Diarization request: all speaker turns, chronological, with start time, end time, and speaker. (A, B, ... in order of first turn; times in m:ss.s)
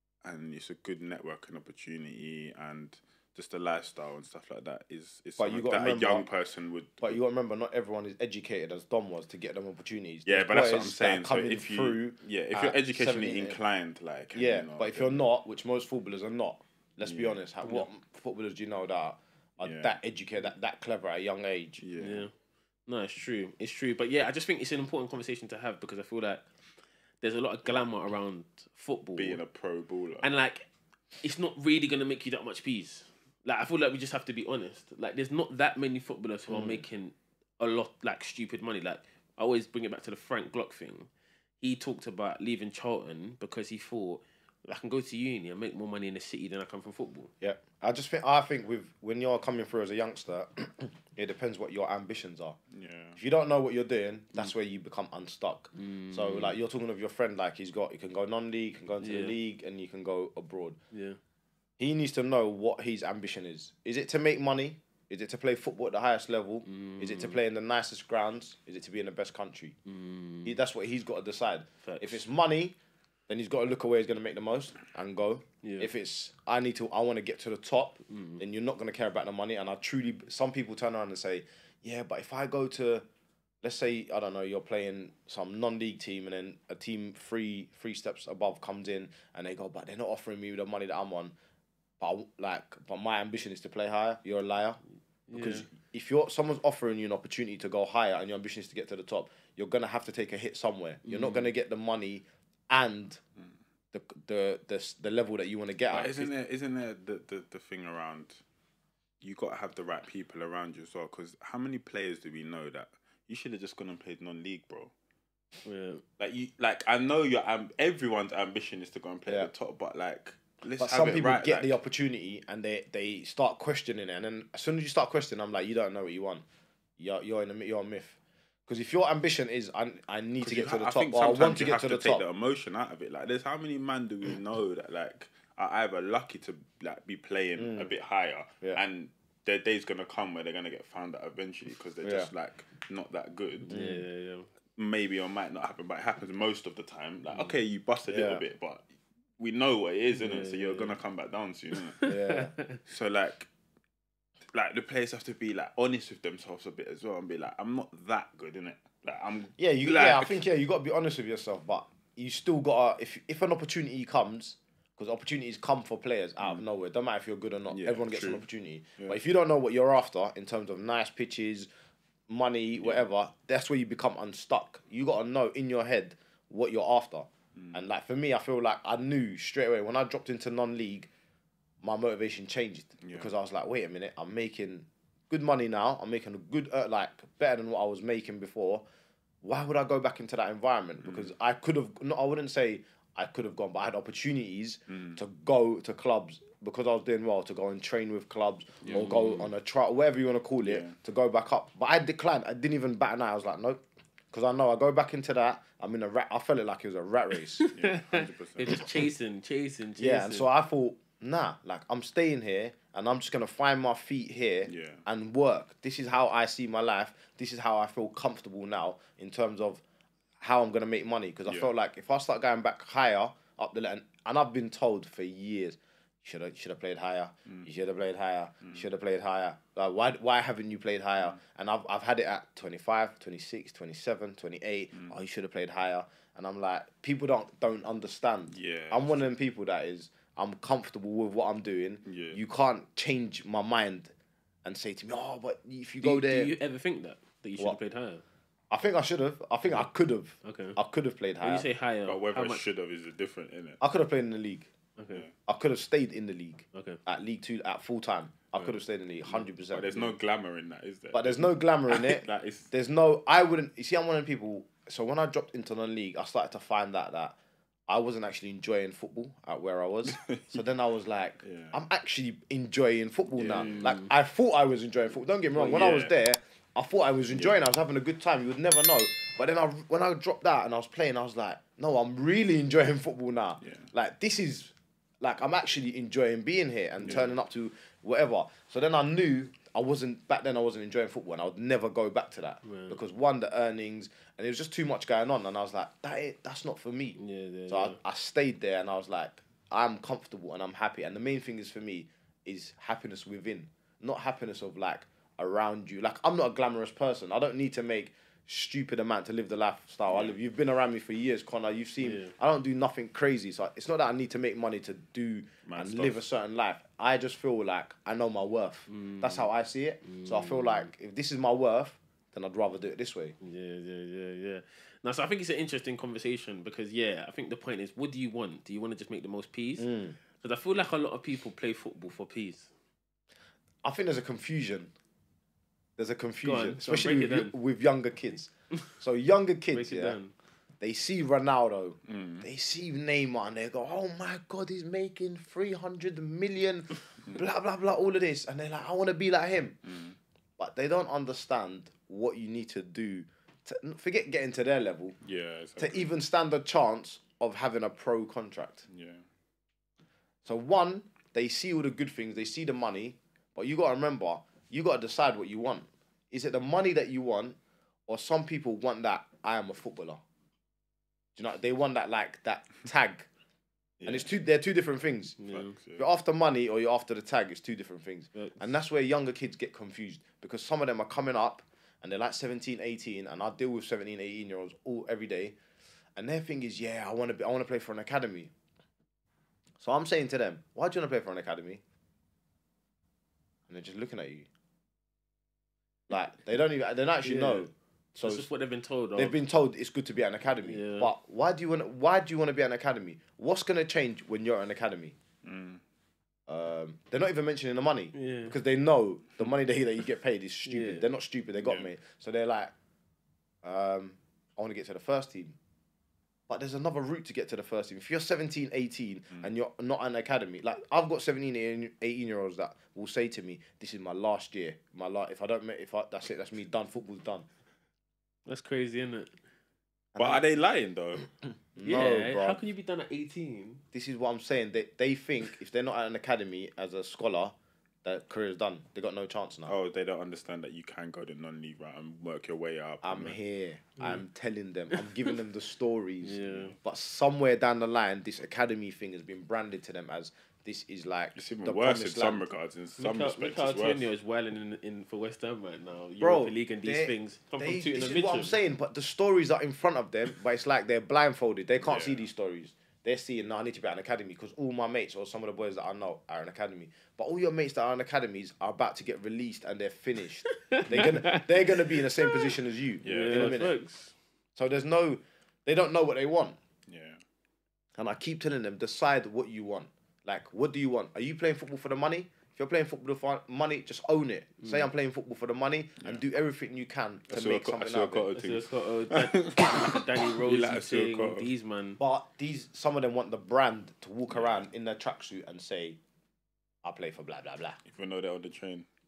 0:00.2-0:07.2 A
0:05.4-0:06.3 B
0:07.0-0:13.6 B
0:10.2-0:15.2 A
0:14.3-0:21.8 B
0:17.0-0:17.4 A
0:19.6-0:20.0 A
0:21.8-0:22.3 A
0:22.0-0:22.3 C
0:22.9-0:26.4 C
0:27.2-0:29.4 C
0:29.2-0:30.3 A
0:30.2-0:30.7 C
0:31.2-0:41.1 C
0:36.5-0:36.8 B
0:41.6-0:47.3 C
0:47.4-0:52.6 B
0:52.7-0:53.2 A
0:53.2-1:00.8 B
0:55.7-0:56.6 C
0:59.0-0:59.4 C
1:00.9-1:01.2 C
1:01.8-1:09.8 B
1:06.6-1:07.4 C
1:09.9-1:10.6 C
1:10.4-1:12.8 B
1:11.8-1:12.2 C
1:13.3-1:23.0 B
1:15.6-1:15.9 C
1:18.1-1:18.4 C
1:23.6-1:31.4 B
1:32.0-1:34.8 B
1:35.3-1:35.7 C
1:35.3-1:43.2 B
1:41.0-1:41.5 C
1:43.9-1:46.3 B
1:45.9-1:48.4 A
1:49.2-1:54.9 A
1:55.6-1:56.0 C
1:56.2-2:01.8 A
2:00.8-2:06.4 B
2:07.0-2:12.2 B
2:10.4-2:23.7 A
2:17.6-2:17.9 B
2:22.0-2:22.3 B
2:23.7-2:24.5 C
2:23.7-2:24.0 B
2:24.8-2:28.8 A
2:28.1-2:28.4 B
2:29.4-2:32.1 A
2:30.1-2:31.0 C
2:32.0-2:32.8 C
2:32.0-2:32.5 B
2:32.9-2:33.5 A
2:34.5-2:40.4 A
2:39.6-2:51.7 B
2:47.7-2:48.4 A
2:52.3-3:01.1 B
2:57.6-2:57.8 A
3:01.8-3:08.8 B
3:03.0-3:03.3 A
3:09.4-3:27.7 B
3:11.0-3:11.3 A
3:14.9-3:15.2 A
3:18.8-3:19.3 A
3:18.9-3:19.5 C
3:20.6-3:21.0 A
3:27.6-3:30.5 C
3:27.7-3:28.9 A
3:30.0-3:39.8 B
3:34.7-3:35.0 A
3:40.4-4:04.1 B
3:58.5-3:59.3 A
4:02.1-4:02.4 A
4:04.6-4:06.5 B
4:06.0-4:08.2 C
4:08.7-4:11.7 B
4:10.4-4:10.8 C
4:11.4-4:12.6 C
4:12.1-4:13.8 A
4:13.8-4:14.7 B
4:15.0-4:15.2 C
4:15.5-4:20.0 B
4:16.7-4:17.0 C
4:18.6-4:20.1 C
4:19.7-4:22.7 A
4:21.1-4:27.4 B
4:27.9-5:23.4 B
4:30.0-4:30.6 A
4:31.4-4:31.8 A
4:33.4-4:33.9 A
4:33.4-4:34.1 C
4:35.6-4:36.1 A
4:43.6-4:43.9 A
4:47.0-4:47.3 A
4:52.6-4:53.0 C
4:57.2-4:58.0 C
5:10.1-5:10.4 A
5:12.0-5:12.3 C
5:15.6-5:16.2 A
5:18.9-5:19.5 C
5:20.0-5:20.9 C
5:23.4-5:32.7 C
5:29.8-5:30.2 B
5:33.8-5:34.9 B
5:36.0-5:40.2 B
5:36.4-5:37.5 C
5:39.7-5:40.3 C
5:40.8-5:49.8 B
5:42.1-5:42.5 A
5:49.8-5:50.2 A
5:50.6-5:55.2 B
5:55.2-5:56.1 A
5:55.8-5:58.9 B
5:58.9-5:59.2 A
6:00.4-6:10.2 B
6:11.4-6:13.3 B
6:14.0-6:14.3 A
6:14.0-6:15.4 B
6:15.4-6:15.8 C
6:15.5-6:16.1 A
6:16.0-6:25.6 B
6:18.4-6:18.6 C
6:26.2-6:28.5 B
6:29.8-6:31.8 B
6:33.7-6:34.5 B
6:36.1-6:38.5 B
6:37.2-6:37.7 C
6:38.2-6:39.4 C
6:39.2-6:45.2 B
6:40.6-6:41.1 C
6:45.4-6:45.8 A
6:46.5-6:52.7 B
6:48.1-6:48.6 C
6:50.7-6:51.0 C
6:51.6-6:51.9 A
6:53.6-6:55.6 B
6:56.5-7:07.5 B
7:08.5-7:09.3 C
7:10.2-7:10.4 B
7:10.2-7:11.3 A
7:11.8-7:12.6 B
7:11.8-7:13.8 C
7:13.9-7:19.8 B
7:19.7-7:23.4 A
7:23.0-7:32.5 B
7:26.2-7:26.8 C
7:26.4-7:26.8 A
7:31.4-7:34.1 A
7:33.0-7:38.6 C
7:36.2-7:53.7 B
7:41.8-7:42.3 A
7:50.7-7:51.7 C
7:53.0-7:53.7 A
7:53.0-7:54.2 C
7:54.6-7:56.6 B
7:56.9-7:57.2 A
7:58.0-8:08.3 B
8:07.3-8:11.5 A
8:08.3-8:12.0 C
8:12.0-8:16.0 B
8:16.8-8:17.8 B
8:17.9-8:18.9 A